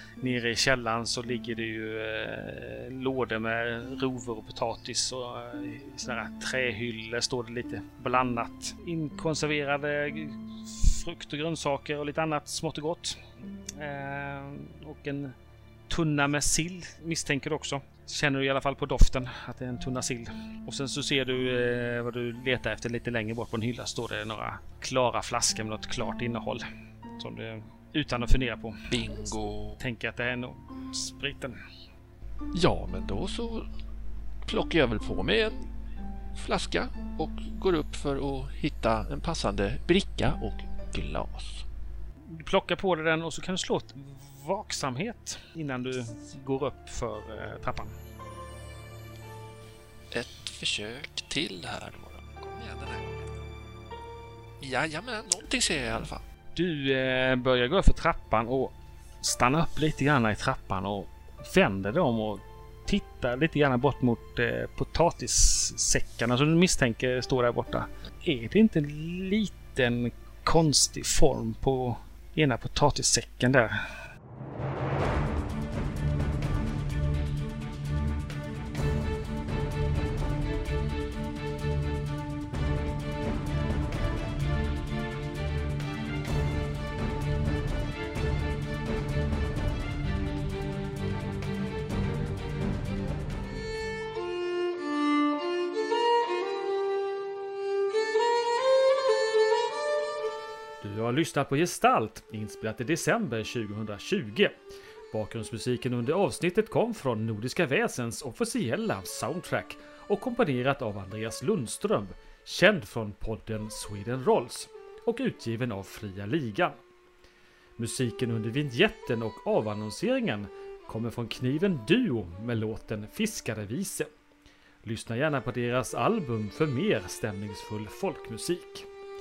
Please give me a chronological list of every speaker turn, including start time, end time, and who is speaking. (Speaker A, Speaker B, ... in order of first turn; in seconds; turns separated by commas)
Speaker A: 0.2-13.2, Speaker A: 13.8-15.3, Speaker A: 15.9-28.9, Speaker B: 28.9-29.8, Speaker A: 29.8-31.6, Speaker B: 32.5-33.6, Speaker B: 34.4-35.7, Speaker B: 36.3-41.6, Speaker A: 42.3-48.0, Speaker B: 50.1-53.2, Speaker B: 54.6-56.2, Speaker A: 56.5-73.9, Speaker A: 100.8-104.5, Speaker A: 105.1-116.8, Speaker A: 117.8-124.1, Speaker A: 124.8-128.9